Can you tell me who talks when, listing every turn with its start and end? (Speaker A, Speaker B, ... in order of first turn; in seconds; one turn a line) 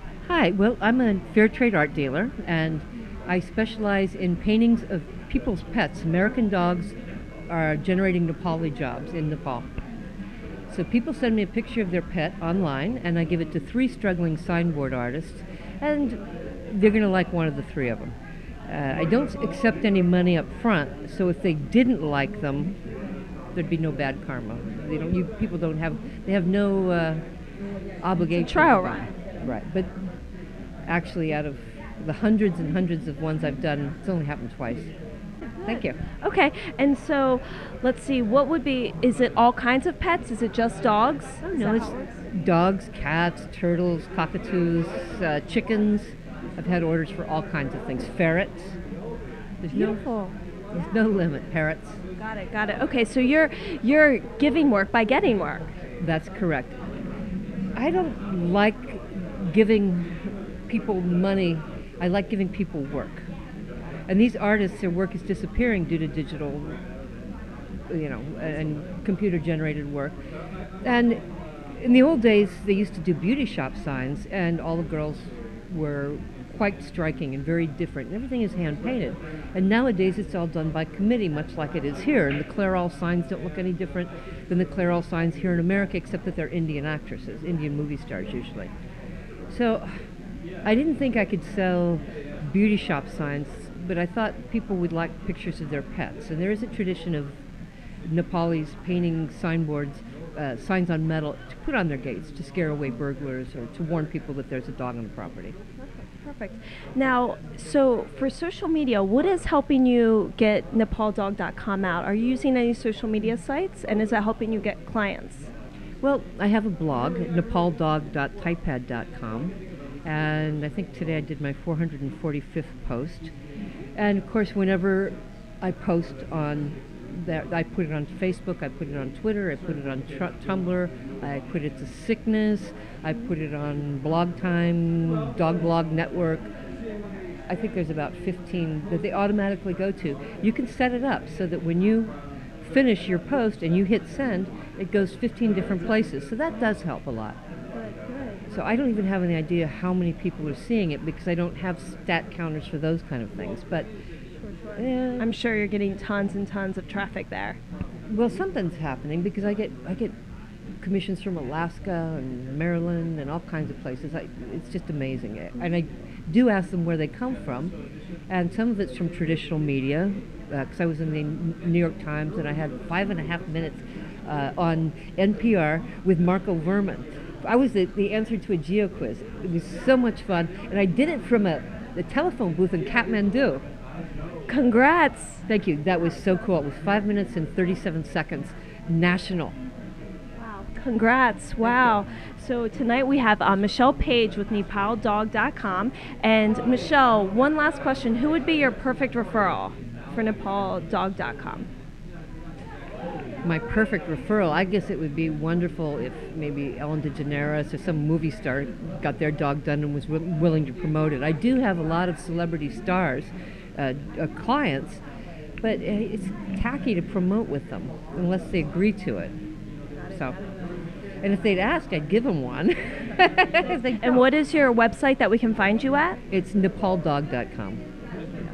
Speaker A: 0.2-7.0
Speaker A: 7.5-9.7
Speaker A: 10.7-18.1
Speaker A: 18.7-22.7
Speaker A: 23.6-27.2
Speaker A: 28.0-29.9
Speaker B: 28.3-29.1
Speaker A: 30.9-34.9
Speaker B: 35.6-42.1
Speaker A: 35.6-36.0
Speaker A: 41.4-48.8
Speaker A: 49.6-50.0
Speaker B: 49.7-50.4
Speaker A: 50.7-52.0
Speaker B: 52.2-55.7
Speaker A: 56.0-56.8
Speaker A: 57.8-63.3
Speaker A: 64.1-66.8
Speaker A: 67.9-70.2
Speaker A: 70.8-71.2
Speaker A: 71.8-88.7
Speaker A: 89.5-89.9
Speaker A: 90.6-97.4
Speaker A: 98.0-105.6
Speaker B: 106.2-115.5
Speaker A: 116.0-123.3
Speaker A: 124.0-136.5
Speaker A: 137.5-147.4
Speaker A: 148.5-153.9
Speaker A: 154.8-155.3
Speaker B: 155.2-157.6
Speaker A: 158.1-160.2
Speaker A: 160.8-167.8
Speaker A: 168.3-183.6
Speaker B: 184.5-185.4
Speaker A: 185.5-189.6
Speaker B: 190.4-201.7
Speaker A: 203.4-215.0
Speaker A: 215.6-219.3
Speaker A: 220.1-220.4
Speaker A: 221.2-224.3
Speaker B: 224.0-226.2
Speaker A: 226.3-227.8